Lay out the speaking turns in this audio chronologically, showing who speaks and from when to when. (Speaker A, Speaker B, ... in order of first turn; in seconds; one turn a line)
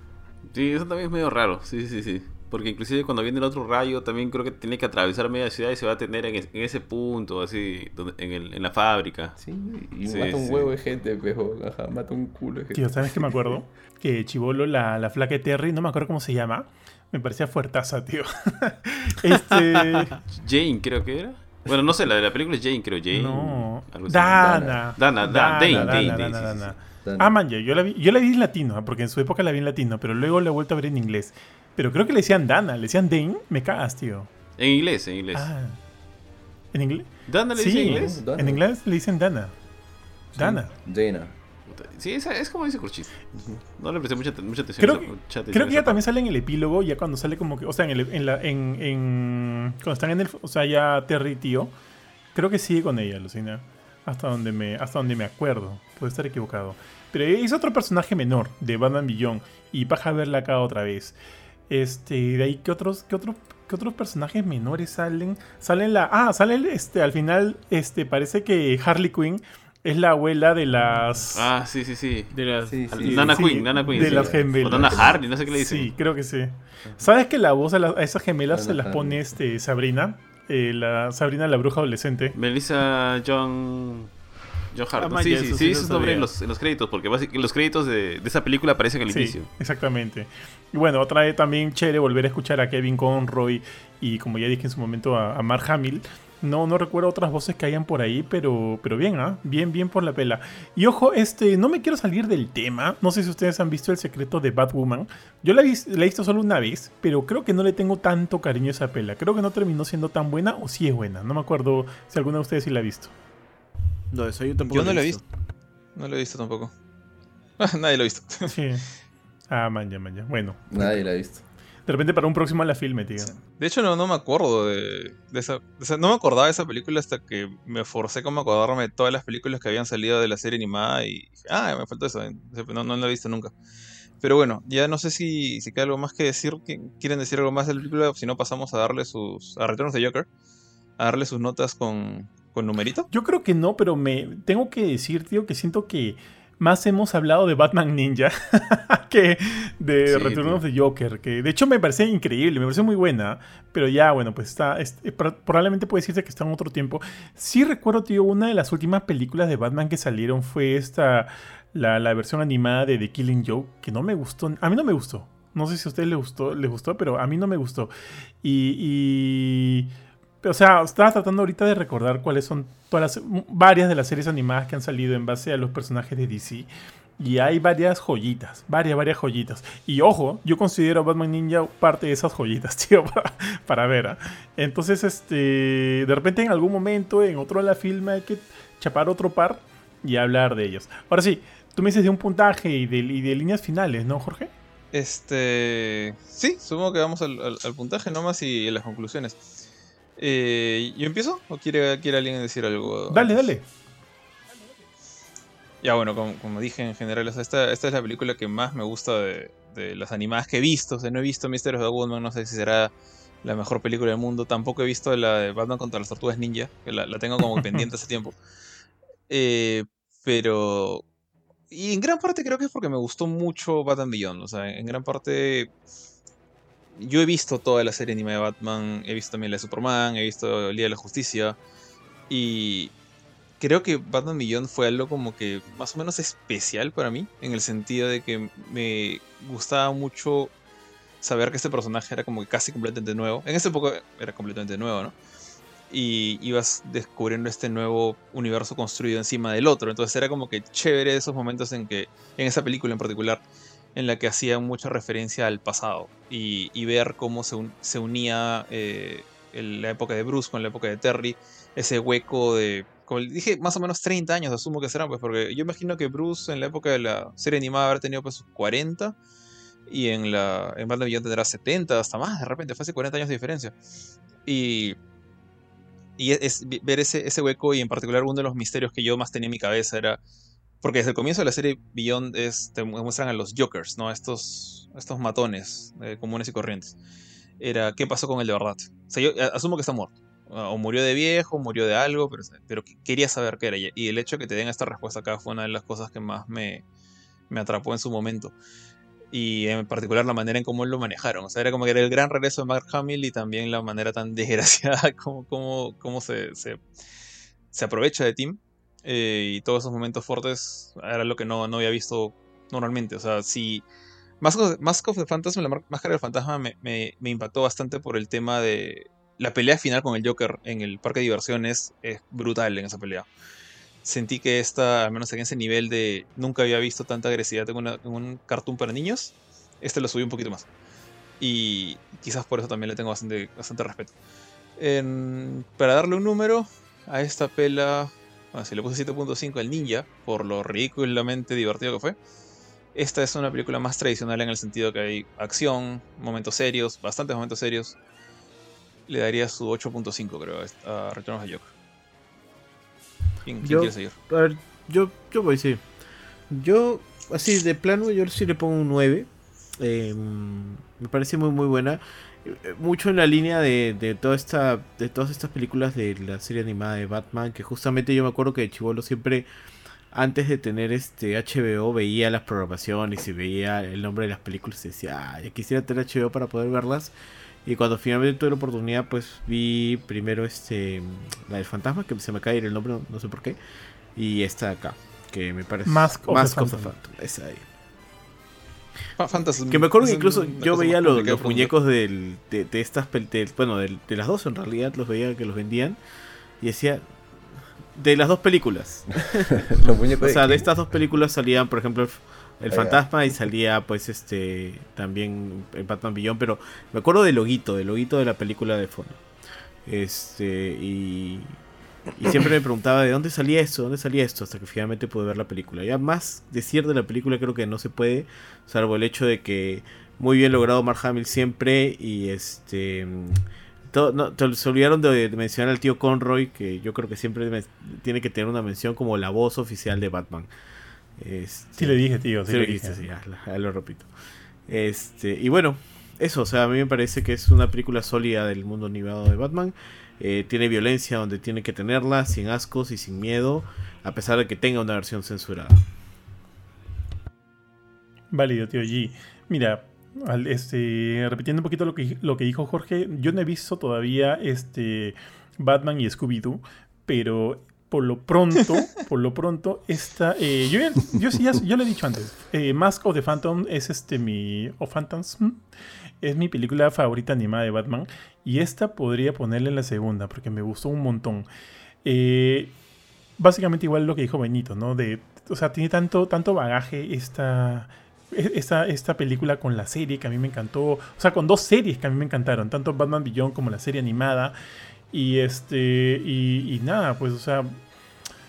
Speaker A: 0.5-9.4
Speaker B: 9.4-13.3
Speaker A: 10.1-10.7
Speaker C: 12.7-20.1
Speaker D: 19.6-20.2
Speaker A: 20.3-26.7
Speaker C: 23.1-34.3
Speaker B: 24.5-24.8
Speaker B: 25.5-27.3
Speaker A: 34.6-35.5
Speaker C: 35.3-35.8
Speaker C: 36.7-39.5
Speaker A: 37.3-38.2
Speaker B: 37.9-38.6
Speaker B: 40.3-41.4
Speaker C: 40.4-40.7
Speaker A: 41.7-46.0
Speaker C: 44.8-51.7
Speaker C: 52.3-61.2
Speaker C: 61.7-71.5
Speaker A: 71.3-72.3
Speaker D: 72.3-73.4
Speaker B: 72.7-75.2
Speaker A: 73.0-75.9
Speaker C: 73.2-82.4
Speaker B: 78.5-79.3
Speaker A: 82.3-84.1
Speaker A: 84.7-89.5
Speaker D: 85.0-86.3
Speaker C: 89.1-113.1
Speaker D: 114.1-115.2
Speaker E: 114.7-115.2
Speaker E: 116.0-116.7
Speaker E: 117.6-118.5
Speaker C: 118.5-118.9
Speaker C: 119.5-121.0
Speaker B: 120.7-121.4
Speaker C: 121.9-123.3
Speaker E: 123.2-133.5
Speaker E: 134.2-140.3
Speaker E: 141.0-143.1
Speaker C: 143.1-169.9
Speaker A: 150.1-150.6
Speaker C: 170.4-194.5
Speaker E: 194.9-199.4
Speaker E: 200.2-203.4
Speaker C: 203.1-203.7
Speaker E: 205.8-212.9
Speaker E: 213.4-218.3
Speaker E: 219.3-221.0
Speaker E: 221.7-225.7
Speaker E: 227.0-231.6
Speaker E: 232.3-232.9
Speaker E: 233.6-240.5
Speaker E: 241.2-245.2
Speaker E: 245.9-253.4
Speaker E: 253.9-269.1
Speaker E: 269.9-273.7
Speaker E: 274.5-275.0
Speaker E: 276.2-280.2
Speaker E: 280.8-287.0
Speaker E: 287.6-296.8
Speaker E: 297.5-298.5
Speaker E: 299.3-306.8
Speaker E: 307.7-313.8
Speaker E: 314.4-323.3
Speaker E: 324.0-330.7
Speaker E: 331.4-334.1
Speaker E: 334.8-342.2
Speaker E: 342.9-348.0
Speaker E: 349.1-351.7
Speaker E: 353.4-354.1
Speaker D: 353.6-355.8
Speaker D: 356.5-369.5
Speaker D: 370.1-377.1
Speaker D: 377.6-383.6
Speaker D: 384.1-387.6
Speaker C: 385.9-386.9
Speaker E: 389.2-391.7
Speaker D: 389.7-396.0
Speaker D: 396.6-397.1
Speaker D: 397.9-399.7
Speaker B: 399.6-400.7
Speaker D: 400.2-409.2
Speaker B: 402.7-403.0
Speaker D: 409.9-411.6
Speaker D: 412.2-430.5
Speaker D: 431.2-434.1
Speaker C: 431.8-433.1
Speaker D: 434.7-445.8
Speaker C: 448.3-465.6
Speaker C: 466.2-471.5
Speaker C: 472.0-472.8
Speaker C: 473.4-484.6
Speaker C: 485.1-487.8